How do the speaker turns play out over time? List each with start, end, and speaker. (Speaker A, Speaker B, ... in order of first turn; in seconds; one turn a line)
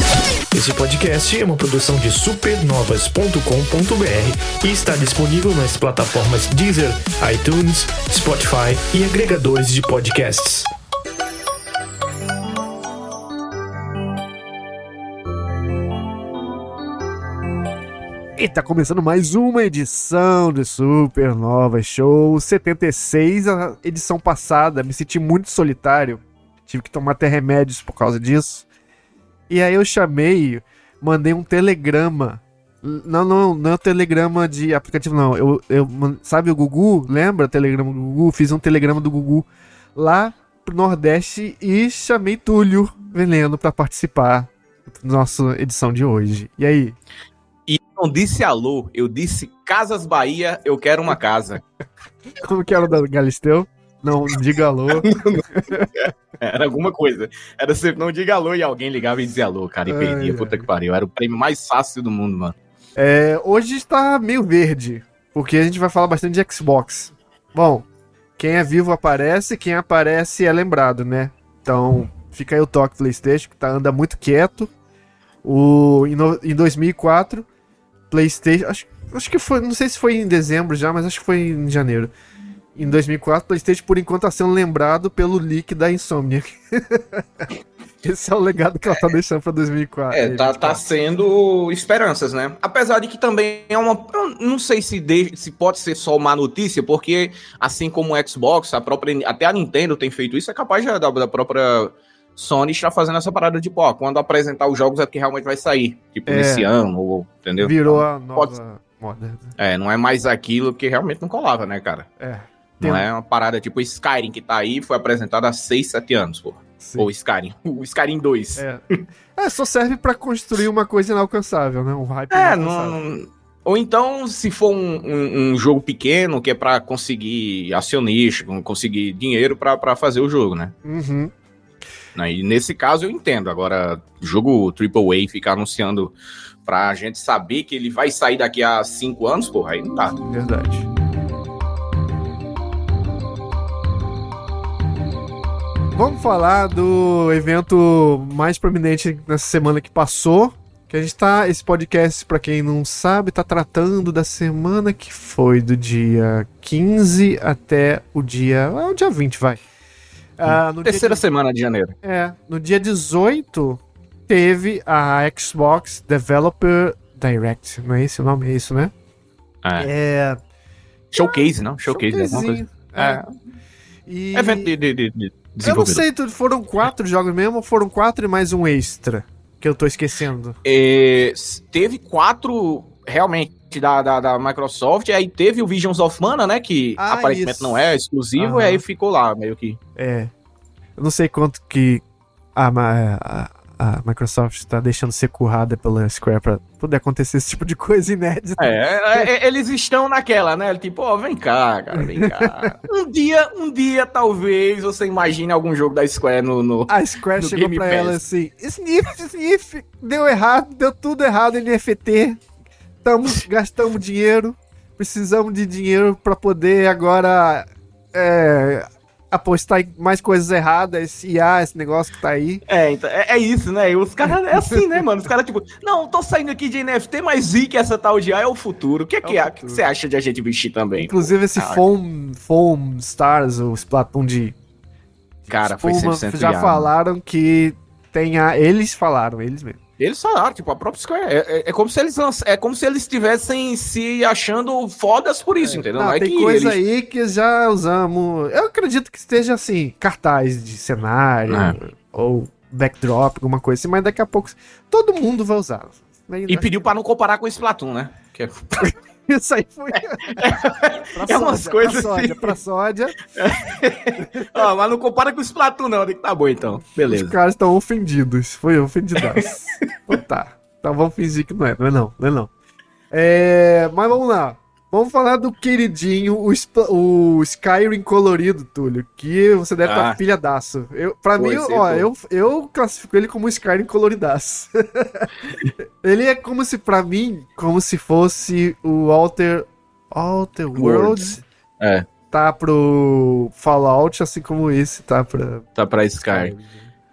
Speaker A: 0.5-10.7
Speaker B: 18.4-28.6
Speaker B: 29.5-47.0
Speaker C: 47.7-51.6
Speaker B: 52.3-55.9
Speaker C: 54.9-62.6
Speaker B: 59.9-60.7
Speaker B: 63.0-67.9
Speaker B: 68.4-74.7
Speaker B: 75.4-77.5
Speaker B: 78.1-82.1
Speaker B: 82.8-87.5
Speaker B: 88.0-90.9
Speaker C: 90.1-108.5
Speaker B: 106.3-106.7
Speaker B: 107.6-109.5
Speaker C: 109.6-112.1
Speaker B: 112.2-113.1
Speaker C: 112.8-118.6
Speaker B: 116.8-117.1
Speaker B: 118.6-118.8
Speaker B: 119.3-123.0
Speaker C: 122.3-130.7
Speaker B: 130.8-131.3
Speaker C: 132.2-136.1
Speaker C: 136.7-140.2
Speaker B: 140.2-140.9
Speaker B: 145.9-159.6
Speaker B: 160.4-161.2
Speaker C: 160.5-161.9
Speaker B: 162.0-168.9
Speaker C: 169.6-169.9
Speaker B: 169.8-170.4
Speaker C: 171.1-173.2
Speaker B: 171.2-173.2
Speaker B: 174.1-174.7
Speaker C: 174.3-176.1
Speaker B: 175.6-180.6
Speaker C: 180.6-189.8
Speaker B: 187.0-188.8
Speaker B: 190.0-190.3
Speaker B: 191.0-192.0
Speaker B: 192.6-199.3
Speaker C: 198.6-208.2
Speaker B: 201.9-202.8
Speaker B: 206.9-212.4
Speaker B: 213.0-222.7
Speaker C: 222.7-231.8
Speaker B: 229.2-229.8
Speaker B: 231.0-234.6
Speaker B: 235.5-239.8
Speaker C: 235.5-236.9
Speaker C: 240.0-246.8
Speaker B: 245.6-256.9
Speaker C: 251.5-251.8
Speaker C: 256.5-258.8
Speaker B: 258.8-263.2
Speaker C: 259.9-262.6
Speaker C: 263.4-267.4
Speaker B: 264.2-264.5
Speaker B: 267.0-272.5
Speaker B: 273.1-291.4
Speaker C: 279.8-280.2
Speaker C: 281.4-282.1
Speaker C: 290.7-292.1
Speaker B: 292.3-295.7
Speaker C: 295.8-296.5
Speaker B: 296.2-296.9